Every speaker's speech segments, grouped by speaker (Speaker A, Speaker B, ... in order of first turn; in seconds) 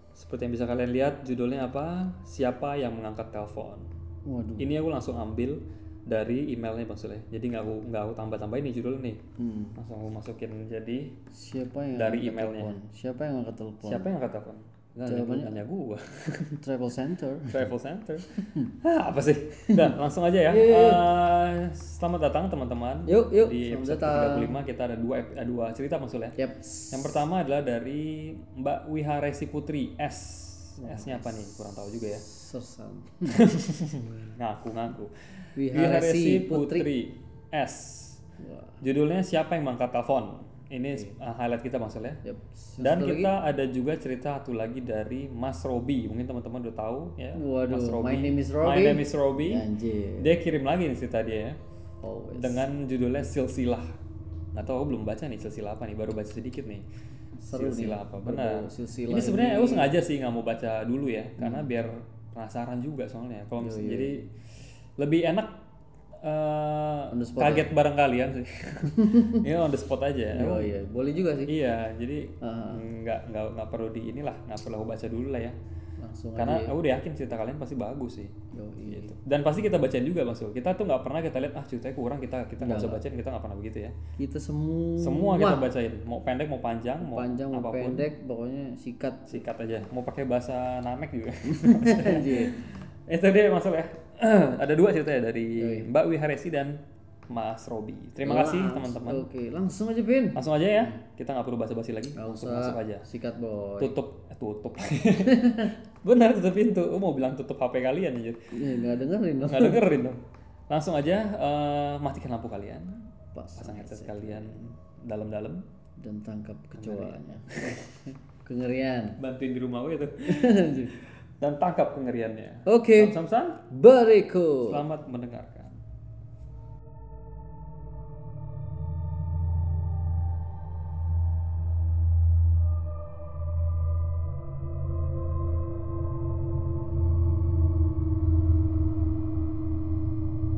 Speaker A: 0.1-3.9, 4.6-9.2, 9.8-11.2, 11.9-12.8, 13.8-16.6, 17.5-26.4, 26.9-32.2, 33.3-38.2, 38.8-42.2, 42.8-49.7, 50.2-51.6, 52.3-54.0, 54.5-56.9, 57.5-64.3, 65.0-65.6, 66.2-70.7, 71.5-75.5, 76.4-78.3, 78.9-84.0, 85.0-88.1, 89.3-99.3, 100.3-103.0, 103.8-108.8, 109.4-115.7, 116.8-117.9, 119.2-123.6, 124.7-125.8
Speaker B: 4.2-4.8, 9.4-9.8, 11.3-14.1, 15.1-15.6, 16.6-17.7, 18.3-18.7, 19.6-19.9, 20.5-21.1, 23.1-24.6, 26.4-27.2, 30.8-33.5, 35.6-36.9, 38.4-38.8, 42.2-43.3, 47.4-50.4, 52.0-52.7, 57.4-60.0, 61.4-61.7, 63.6-64.2, 67.1-67.7, 69.0-69.5, 70.3-71.5, 72.4-72.9, 76.0-76.8, 78.5-79.2, 82.6-83.0, 84.2-85.7, 87.0-89.3, 91.5-92.6, 95.6-95.9, 98.2-101.0, 102.2-104.0, 105.2-105.8, 108.5-109.8, 113.3-114.7, 116.0-119.2, 120.3-121.0, 122.7-123.2, 123.7-124.8